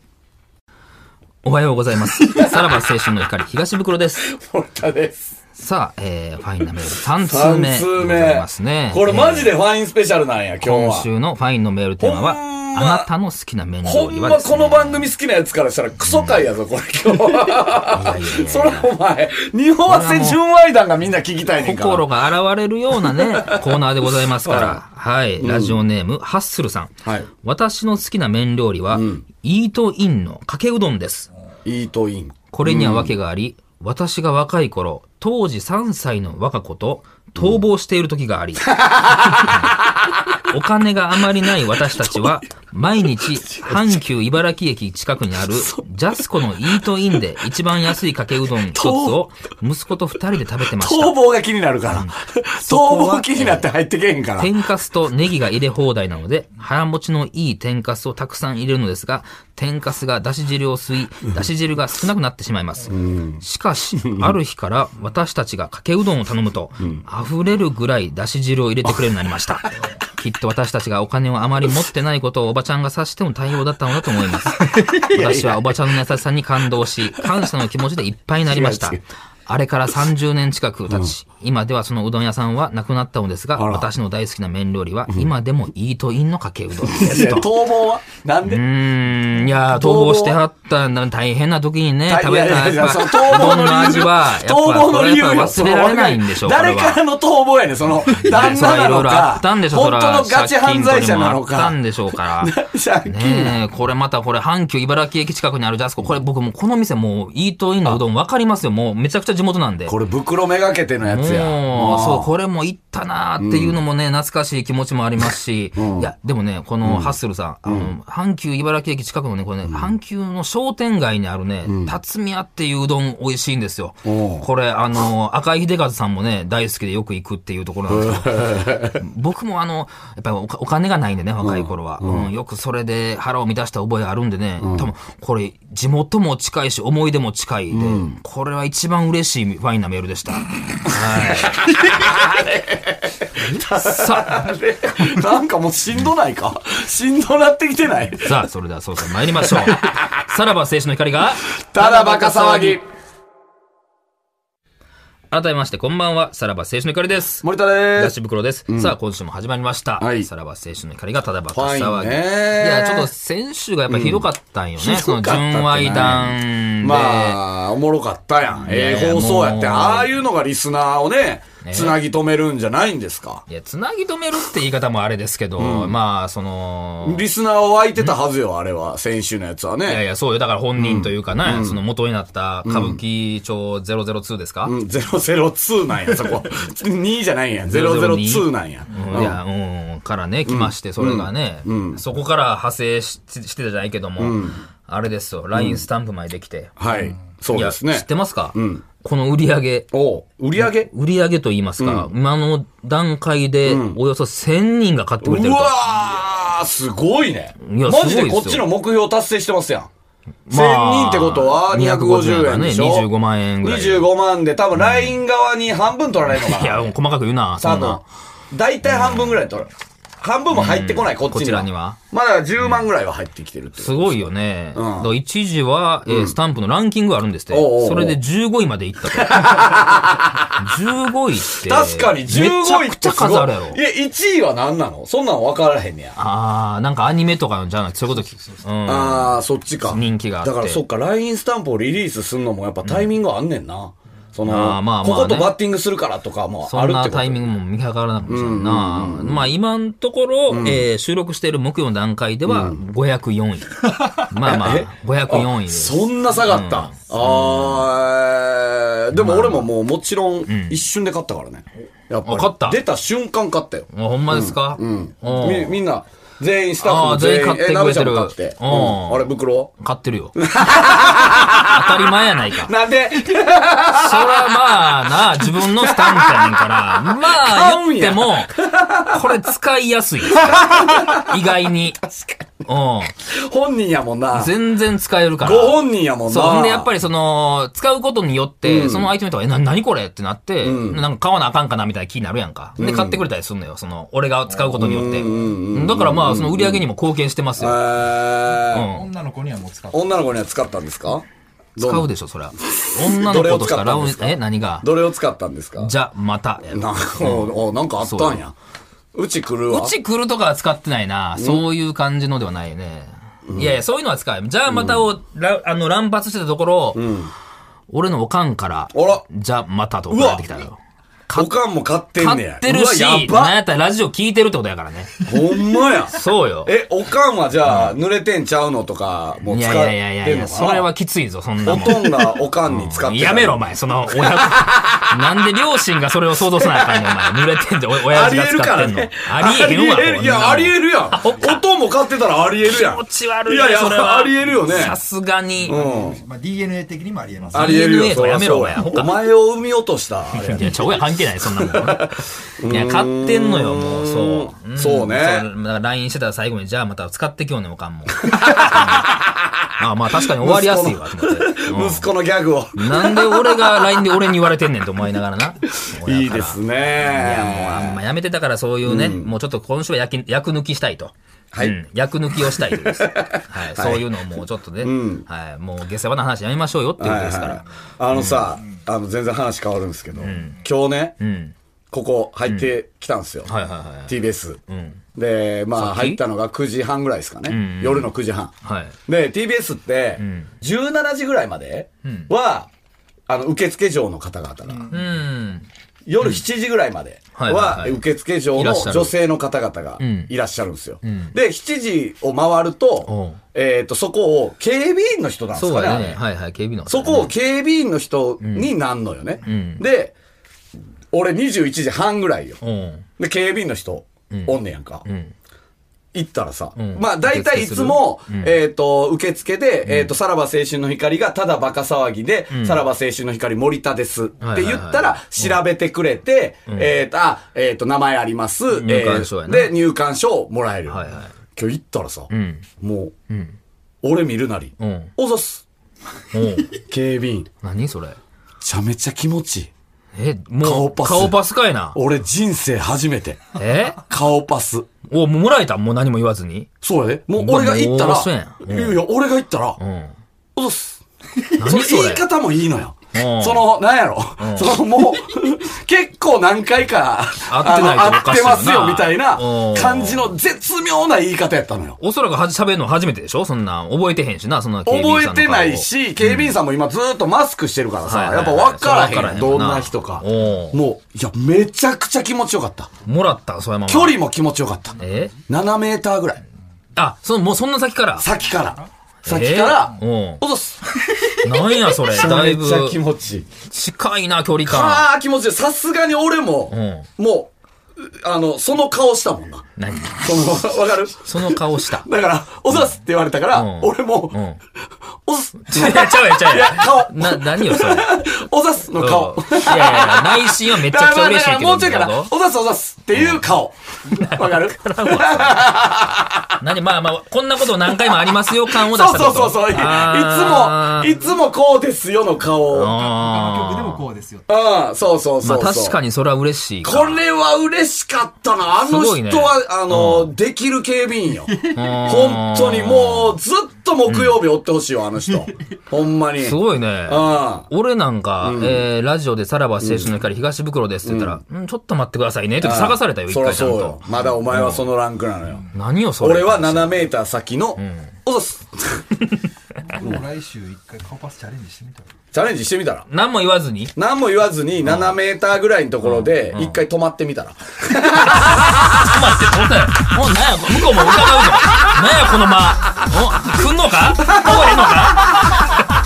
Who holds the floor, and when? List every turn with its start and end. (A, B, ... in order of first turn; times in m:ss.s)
0:01.4-0:04.3 A
0:04.2-0:05.4 B
0:05.6-0:09.6 A
0:07.2-0:11.1 B
0:10.6-0:15.1 A
0:12.0-0:13.1 B
0:13.8-0:22.1 B
0:16.1-0:16.4 A
0:17.8-0:18.9 A
0:19.9-0:20.4 A
0:21.5-0:31.3 A
0:23.1-0:23.8 B
0:24.4-0:24.8 B
0:25.4-0:25.8 B
0:27.0-0:27.3 B
0:28.9-0:29.2 B
0:31.6-0:33.1 B
0:32.5-0:38.7 A
0:38.6-0:40.4 B
0:39.2-0:39.8 A
0:40.4-0:51.2 A
0:41.7-0:42.3 B
0:43.4-0:44.0 B
0:45.5-0:46.2 B
0:48.7-0:49.2 B
0:50.7-0:54.5 B
0:51.9-0:53.7 A
0:54.4-1:27.5 A
1:02.9-1:03.4 B
1:04.0-1:04.4 B
1:15.0-1:15.8 B
1:18.5-1:19.0 B
1:23.6-1:23.9 B
1:26.9-1:28.6 B
1:28.5-1:37.0 A
1:29.7-1:30.4 B
1:32.1-1:43.6 B
1:38.2-1:50.0 A
1:49.9-1:52.3 B
1:51.1-2:21.6 A
1:53.4-1:53.8 B
1:55.8-1:56.1 B
1:56.8-1:57.2 B
1:57.7-1:57.9 B
1:59.7-1:59.9 B
2:01.6-2:02.0 B
2:04.0-2:04.5 B
2:07.9-2:09.0 B
2:11.4-2:12.3 B
2:14.6-2:14.9 B
2:17.7-2:18.2 B
2:21.2-2:28.4 B
2:23.7-2:24.4 A
2:28.2-2:32.8 A
2:29.4-2:30.2 B
2:31.6-2:32.8 B
2:35.3-2:47.4 A
2:37.4-2:38.2 B
2:38.7-2:39.0 B
2:40.0-2:40.3 B
2:41.5-2:43.1 B
2:43.9-2:44.3 B
2:44.8-2:53.4 B
2:48.6-2:50.1 A
2:51.6-2:52.0 A
2:53.5-2:57.2 A
2:55.6-2:56.0 B
2:57.0-3:00.0 B
2:59.9-3:04.8 A
3:00.8-3:01.8 B
3:02.6-3:03.0 B
3:04.6-3:09.4 B
3:07.7-3:16.8 A
3:10.5-3:12.0 B
3:14.2-3:14.6 B
3:15.5-3:15.8 B
3:16.8-3:18.8 B
3:17.5-3:19.9 A
3:19.9-3:20.9 B
3:20.6-3:25.7 A
3:21.8-3:22.1 B
3:23.7-3:24.0 B
3:25.2-3:29.9 B
3:27.6-3:28.7 A
3:30.5-3:34.1 A
3:30.5-3:33.1 B
3:33.6-3:36.9 B
3:34.8-3:35.2 A
3:36.3-3:38.0 A
3:37.6-3:39.7 B
3:38.8-3:39.4 A
3:40.2-3:45.1 B
3:40.5-3:42.0 A
3:42.6-3:42.8 A
3:43.8-3:49.9 A
3:46.1-3:46.4 B
3:47.5-3:48.2 B
3:49.1-3:50.7 B
3:50.6-3:53.8 A
3:51.5-3:56.2 B
3:56.2-4:00.8 A
3:58.9-4:07.5 B
4:02.8-4:03.1 A
4:04.4-4:05.6 A
4:06.7-4:17.9 A
4:08.3-4:09.5 B
4:10.5-4:10.9 B
4:12.5-4:12.8 B
4:14.4-4:29.7 B
4:19.1-4:19.7 A
4:20.5-4:20.8 A
4:22.2-4:22.8 A
4:23.9-4:25.8 A
4:26.8-4:32.7 A
4:30.4-4:39.4 B
4:33.9-4:42.0 A
4:40.3-4:42.6 B
4:42.7-4:43.2 A
4:43.2-4:44.6 B
4:44.3-4:57.8 A
4:45.4-4:46.9 B
4:48.6-4:49.1 B
4:50.6-4:51.0 B
4:52.8-4:53.2 B
4:54.7-4:56.8 B
4:55.2-4:55.5 C
4:57.6-4:58.9 B
4:58.7-4:59.1 A
4:58.8-5:00.1 C
4:59.9-5:01.2 B
5:01.8-5:04.9 A
5:01.8-5:05.9 B
5:05.8-5:08.4 A
5:06.7-5:08.5 B
5:09.1-5:10.0 B
5:09.7-5:17.1 A
5:11.4-5:11.6 B
5:13.5-5:13.8 B
5:14.7-5:15.0 B
5:17.0-5:17.3 B
5:17.9-5:21.6 A
5:18.9-5:19.2 B
5:20.1-5:20.6 B
5:21.3-5:23.6 B
5:22.2-5:25.2 A
5:25.2-5:30.9 B
5:26.1-5:26.7 A
5:27.7-5:28.0 A
5:29.5-5:41.6 A
5:31.6-5:35.2 B
5:36.6-5:37.2 B
5:38.0-5:45.0 B
5:42.6-5:45.8 A
5:45.7-5:46.2 B
5:45.7-5:47.8 C
5:47.5-5:55.5 B
5:47.5-5:49.3 A
5:50.3-5:59.2 A
5:58.2-5:59.7 B
5:59.8-6:02.1 A
6:00.2-6:04.1 B
6:02.8-6:18.5 A
6:05.7-6:08.0 B
6:08.8-6:09.3 B
6:11.5-6:11.8 B
6:12.5-6:14.1 B
6:14.8-6:15.3 B
6:17.0-6:21.2 B
6:20.2-6:20.6 A
6:21.2-6:21.5 A
6:21.9-6:23.5 B
6:22.5-6:22.7 A
6:23.4-6:24.2 A
6:24.1-6:24.6 B
6:24.7-6:25.0 A
6:25.2-6:28.5 B
6:25.8-6:26.2 A
6:27.5-6:29.0 A
6:29.1-6:32.7 B
6:30.2-6:30.5 A
6:32.0-6:32.3 A
6:33.3-6:35.0 B
6:34.9-6:35.7 A
6:36.1-6:46.2 B
6:37.4-6:39.2 A
6:40.0-6:40.3 A
6:41.0-6:41.4 A
6:43.1-6:43.4 A
6:45.5-6:47.3 A
6:46.9-6:50.1 B
6:48.4-6:48.7 A
6:49.4-6:49.9 A
6:51.1-6:52.6 B
6:52.6-6:53.1 A
6:53.2-6:55.0 B
6:54.3-6:55.3 A
6:56.1-7:13.2 B
6:56.8-6:58.6 A
6:59.9-7:00.1 A
7:02.5-7:02.8 A
7:04.4-7:05.6 A
7:08.7-7:09.8 A
7:10.9-7:11.3 A
7:12.3-7:12.7 A
7:13.3-7:13.6 A
7:14.0-7:15.6 B
7:14.8-7:15.1 A
7:16.3-7:16.8 A
7:16.8-7:17.5 B
7:17.6-7:18.2 A
7:18.6-7:19.7 B
7:20.2-7:22.0 A
7:20.6-7:21.4 B
7:21.9-7:23.5 B
7:23.6-7:24.0 A
7:24.0-7:24.9 B
7:25.1-7:26.7 A
7:26.8-7:29.8 B
7:27.4-7:29.0 A
7:29.8-7:30.2 A
7:30.6-7:31.0 B
7:31.6-7:32.3 A
7:31.6-7:42.0 B
7:33.1-7:33.7 A
7:34.4-7:34.8 A
7:37.5-7:40.3 A
7:42.0-7:46.6 A
7:44.9-7:52.9 B
7:48.0-7:50.8 A
7:53.0-7:54.2 A
7:53.9-7:56.4 B
7:55.0-7:55.4 A
7:57.0-7:58.3 A
7:58.2-8:01.0 B
7:59.2-8:00.4 A
8:01.4-8:03.0 A
8:01.9-8:03.5 B
8:03.7-8:05.1 A
8:04.6-8:14.4 B
8:06.7-8:07.1 A
8:09.8-8:10.4 A
8:11.2-8:12.1 A
8:13.5-8:14.6 A
8:15.2-8:26.6 B
8:15.6-8:18.3 A
8:19.0-8:22.3 A
8:23.2-8:23.4 A
8:24.1-8:25.8 A
8:26.6-8:31.2 A
8:28.1-8:33.0 B
8:32.7-8:34.1 A
8:32.8-8:34.5 C
8:34.5-8:36.0 B
8:35.4-8:37.2 A
8:36.8-8:47.7 B
8:38.8-8:40.3 A
8:41.5-8:41.8 C
8:41.7-8:43.4 A
8:44.1-8:44.4 A
8:46.4-8:54.9 A
8:48.4-8:48.9 B
8:49.8-8:50.1 B
8:51.0-8:51.4 B
8:52.6-8:55.7 B
8:55.7-8:57.1 A
8:56.2-8:59.1 B
8:57.8-8:58.2 A
8:59.9-9:02.1 C
9:00.0-9:00.2 B
9:02.3-9:03.1 B
9:03.1-9:04.0 A
9:04.0-9:09.2 B
9:04.8-9:05.2 A
9:06.0-9:06.8 A
9:08.2-9:15.8 A
9:11.0-9:11.5 B
9:14.2-9:15.7 B